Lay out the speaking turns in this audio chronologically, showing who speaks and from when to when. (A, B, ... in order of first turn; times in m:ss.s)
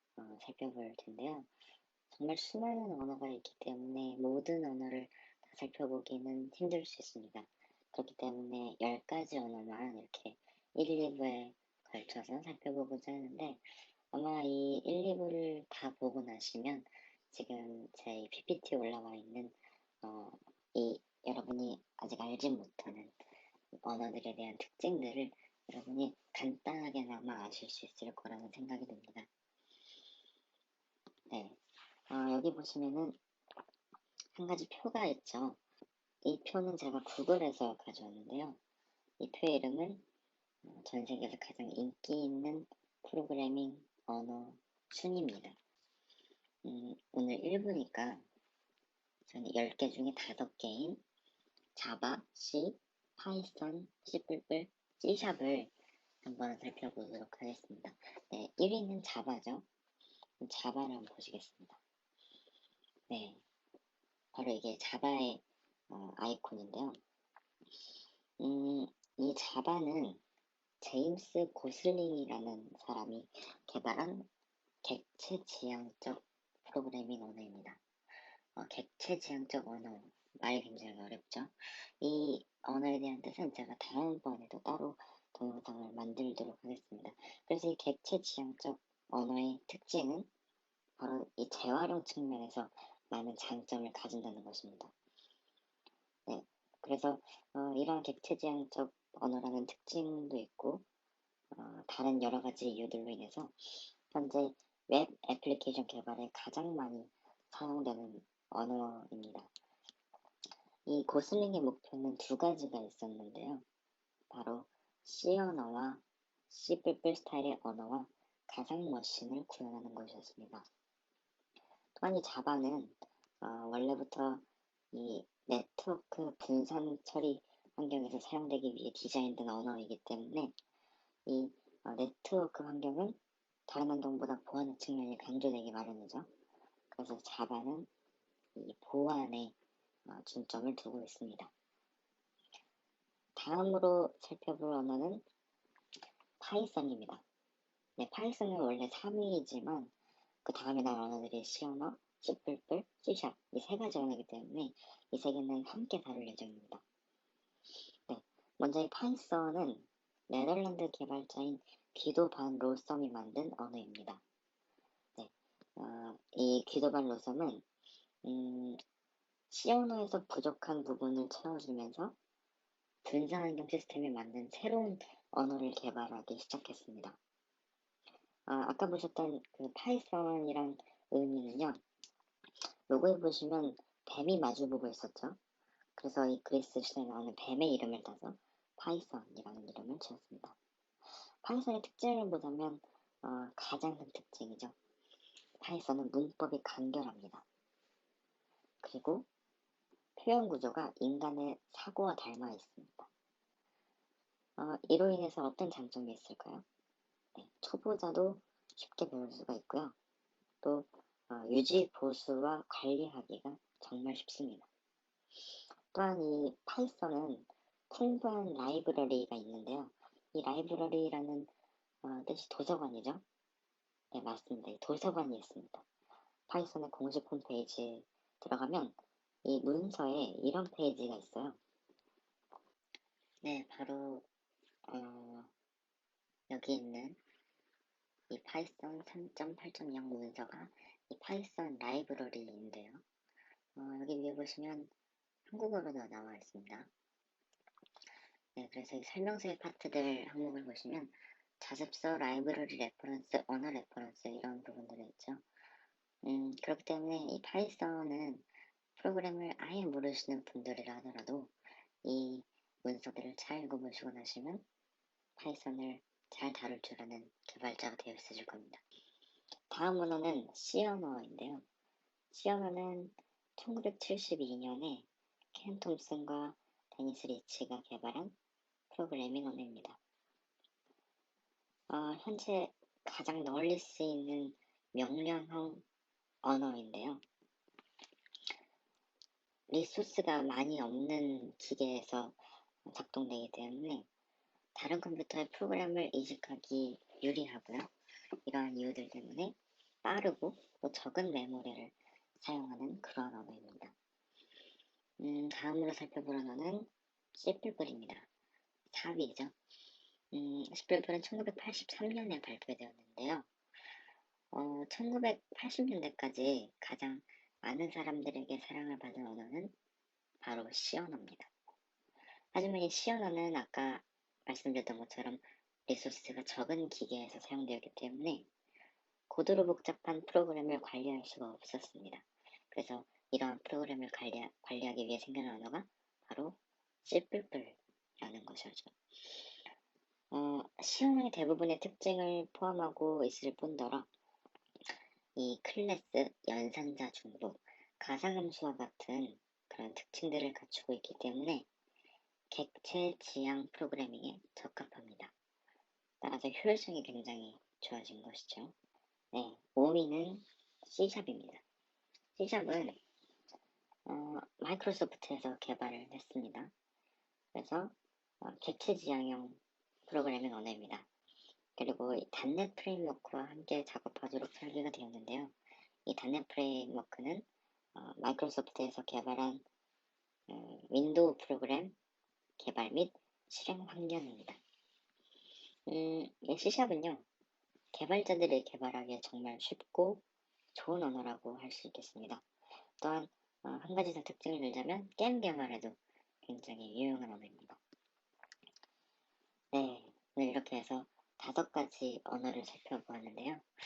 0:00.2-0:01.5 A
0:02.1-0:23.2 A
0:23.8-0:29.3 A
0:31.3-0:33.2 A
0:34.4-0:35.6 A
0:36.2-0:38.6 A
0:39.2-0:40.0 A
0:40.6-0:45.6 A
0:46.6-0:48.2 A
0:49.3-0:51.0 A
0:51.8-0:55.7 A
0:56.2-0:59.6 A
1:00.4-1:01.8 A
1:03.1-1:03.4 A
1:04.3-1:07.0 A
1:08.4-1:10.2 A
1:10.8-1:14.3 A
1:14.8-1:17.8 A
1:18.6-1:30.3 A
1:31.0-1:34.9 A
1:36.3-1:40.8 A
1:41.5-1:49.5 A
1:50.9-1:53.6 A
1:54.3-2:00.6 A
2:02.0-2:10.5 A
2:11.3-2:13.2 A
2:13.7-2:16.3 A
2:16.9-2:17.9 A
2:18.6-2:19.5 A
2:20.1-2:21.5 A
2:23.4-2:25.2 A
2:26.4-2:27.2 A
2:28.0-2:29.9 A
2:30.4-2:36.8 A
2:38.1-2:44.2 A
2:45.2-2:47.6 A
2:48.2-2:48.8 A
2:49.5-2:52.2 A
2:53.0-2:57.2 A
2:58.5-3:01.8 A
3:02.9-3:05.4 A
3:06.0-3:10.6 A
3:11.4-3:14.8 A
3:15.6-3:17.4 A
3:18.8-3:19.3 A
3:20.2-3:23.1 A
3:24.6-3:26.6 A
3:27.4-3:30.0 A
3:30.6-3:34.7 A
3:35.9-3:41.5 A
3:42.0-3:43.2 A
3:44.1-3:45.8 A
3:46.5-3:51.6 A
3:53.4-3:54.3 A
3:54.9-3:55.5 A
3:56.5-3:57.2 A
3:58.3-4:03.0 A
4:03.8-4:04.9 A
4:05.5-4:06.9 A
4:08.6-4:15.4 A
4:16.2-4:18.5 A
4:19.0-4:21.5 A
4:22.0-4:24.6 A
4:25.4-4:28.8 A
4:29.7-4:31.6 A
4:32.3-4:38.4 A
4:38.9-4:40.0 A
4:41.9-4:45.8 A
4:46.4-4:47.2 A
4:49.7-4:54.1 A
4:54.8-4:57.9 A
4:58.5-5:04.0 A
5:05.2-5:08.3 A
5:08.9-5:09.5 A
5:10.3-5:13.5 A
5:14.5-5:19.7 A
5:20.4-5:21.5 A
5:22.5-5:28.5 A
5:29.3-5:39.5 A
5:40.3-5:44.1 A
5:45.4-5:51.7 A
5:52.5-5:55.3 A
5:56.2-5:58.7 A
5:59.3-6:01.6 A
6:02.4-6:03.0 A
6:04.1-6:06.7 A
6:07.5-6:11.1 A
6:11.8-6:15.6 A
6:16.1-6:19.6 A
6:20.5-6:22.0 A
6:22.6-6:24.6 A
6:25.9-6:27.2 A
6:27.9-6:30.2 A
6:30.7-6:32.4 A
6:33.0-6:37.8 A
6:39.7-6:43.6 A